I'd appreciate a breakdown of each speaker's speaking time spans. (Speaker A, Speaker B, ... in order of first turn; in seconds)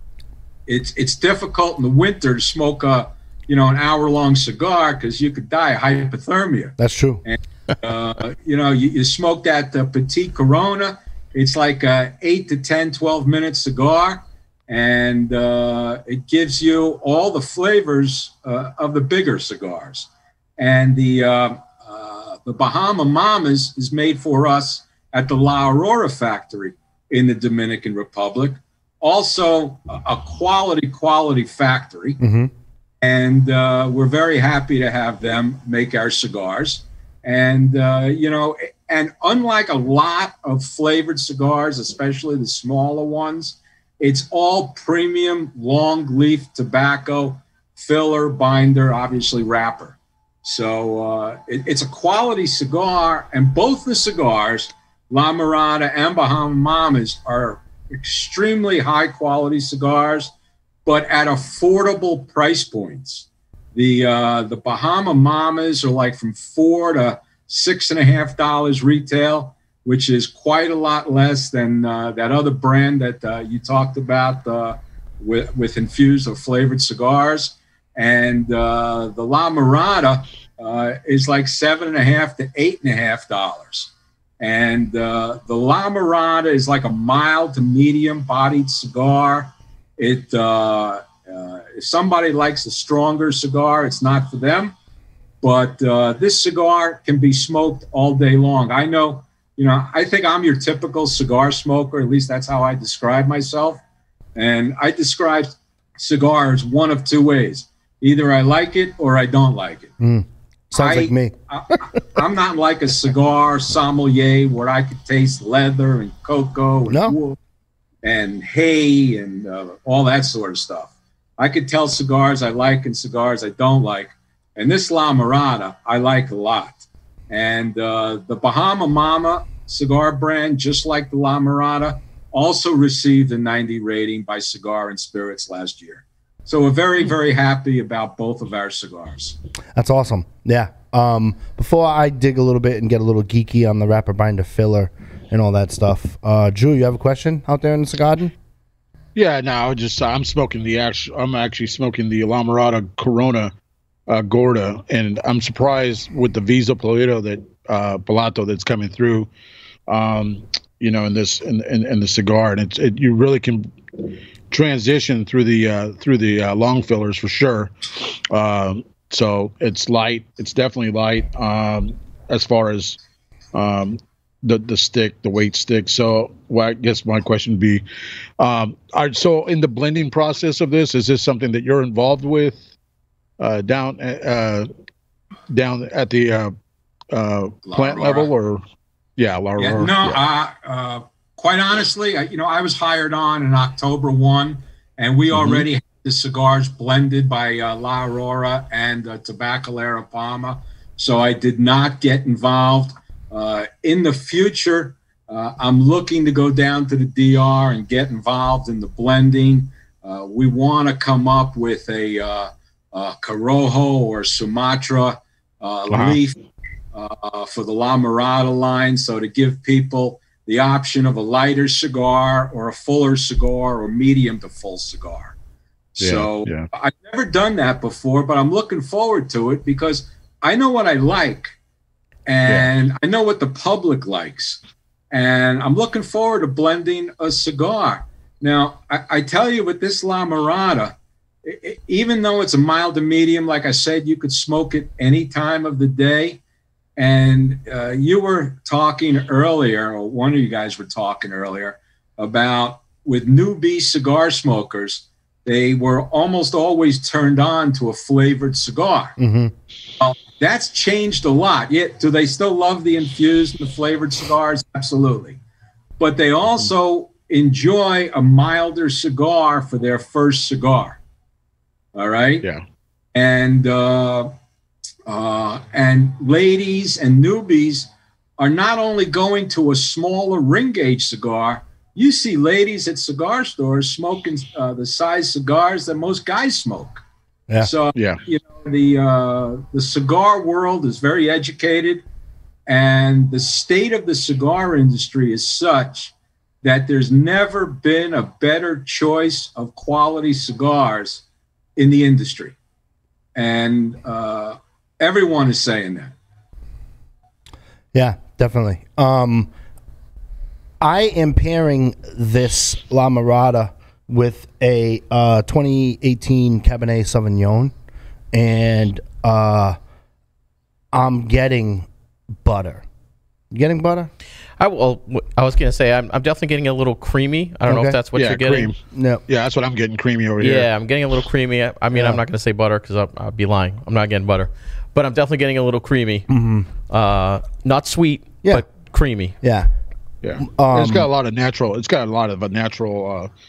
Speaker A: 0.7-32.2, 33.0-60.3, 60.9-94.7, 95.4-103.8, 104.3-109.9, 110.7-117.4, 118.0-139.4, 187.6-188.3, 189.6-216.4, 216.9-225.3, 225.9-231.5, 232.3-234.6, 235.1-246.4, 247.0-259.1, 260.0-265.4, 266.0-271.0, 271.9-272.4, 273.1-274.3, 275.1-287.0, 287.6-292.1, 292.7-301.2, 301.8-302.6, 303.4-306.1
Speaker B: 6.8-7.2, 32.2-32.5, 110.0-111.3, 116.9-117.2, 139.7-148.3, 259.2-259.5, 307.9-309.5, 310.8-317.7, 318.3-319.8, 320.9-321.9, 322.4-322.9, 323.5-324.1, 327.6-328.0, 328.9-329.2, 331.9-332.2, 336.3-336.7, 339.4-339.7, 340.4-341.1
Speaker C: 149.1-153.5, 154.1-159.3, 159.9-163.7, 164.5-167.7, 168.3-173.0, 173.5-177.8, 178.4-182.6, 183.4-184.7, 185.5-186.5, 187.1-188.6, 189.2-190.2, 195.3-195.6, 215.9-216.2, 226.0-226.7, 287.9-288.2, 328.1-328.8, 329.3-330.7, 340.2-343.3
Speaker D: 324.6-328.7, 330.4-336.3, 336.9-339.4